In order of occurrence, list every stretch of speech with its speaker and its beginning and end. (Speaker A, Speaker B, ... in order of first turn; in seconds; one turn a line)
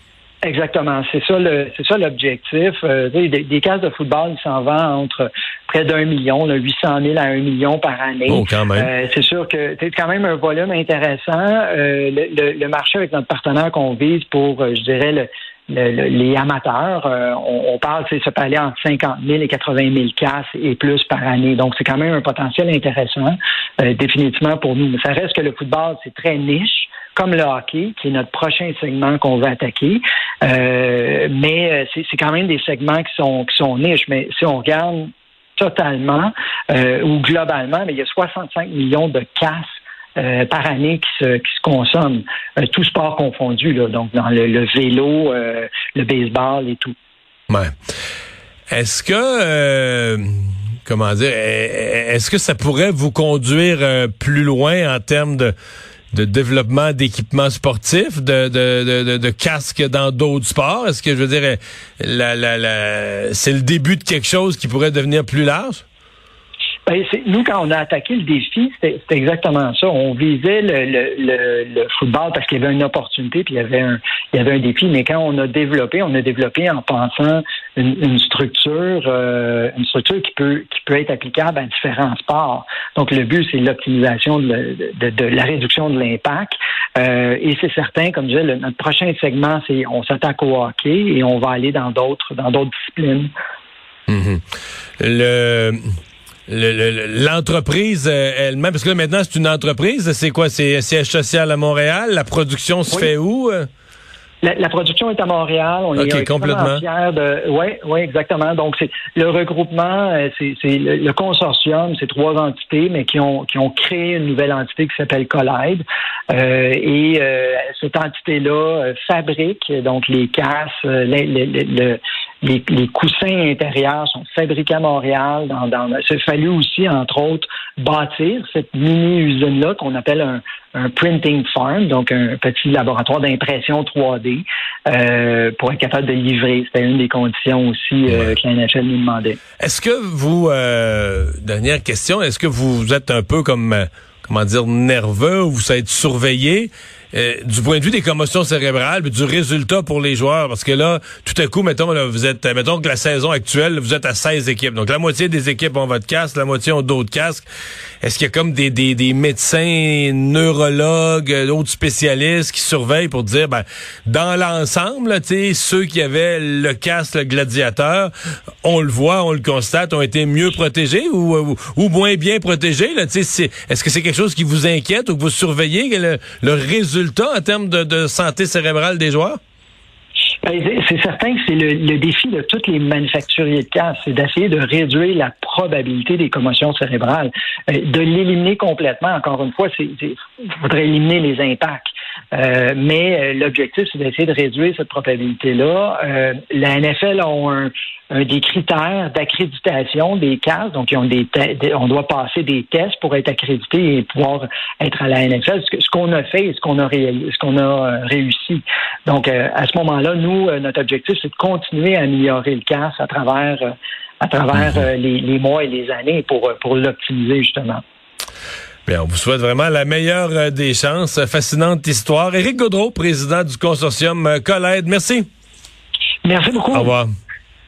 Speaker A: 0.4-46.9
Speaker B: 8.3-8.9
Speaker B: 48.7-50.3
Speaker B: 50.9-55.5
Speaker B: 56.1-65.8
Speaker A: 66.8-93.3
Speaker B: 94.1-94.4
Speaker B: 95.0-95.8
Speaker B: 96.5-103.7
Speaker A: 104.4-139.4
Speaker B: 106.0-106.8
Speaker B: 138.1-138.3
Speaker B: 139.6-157.5
Speaker B: 158.0-168.1
Speaker B: 168.6-179.4
Speaker A: 180.4-217.8
Speaker B: 218.9-225.2
Speaker A: 226.2-226.9
Speaker B: 226.7-227.1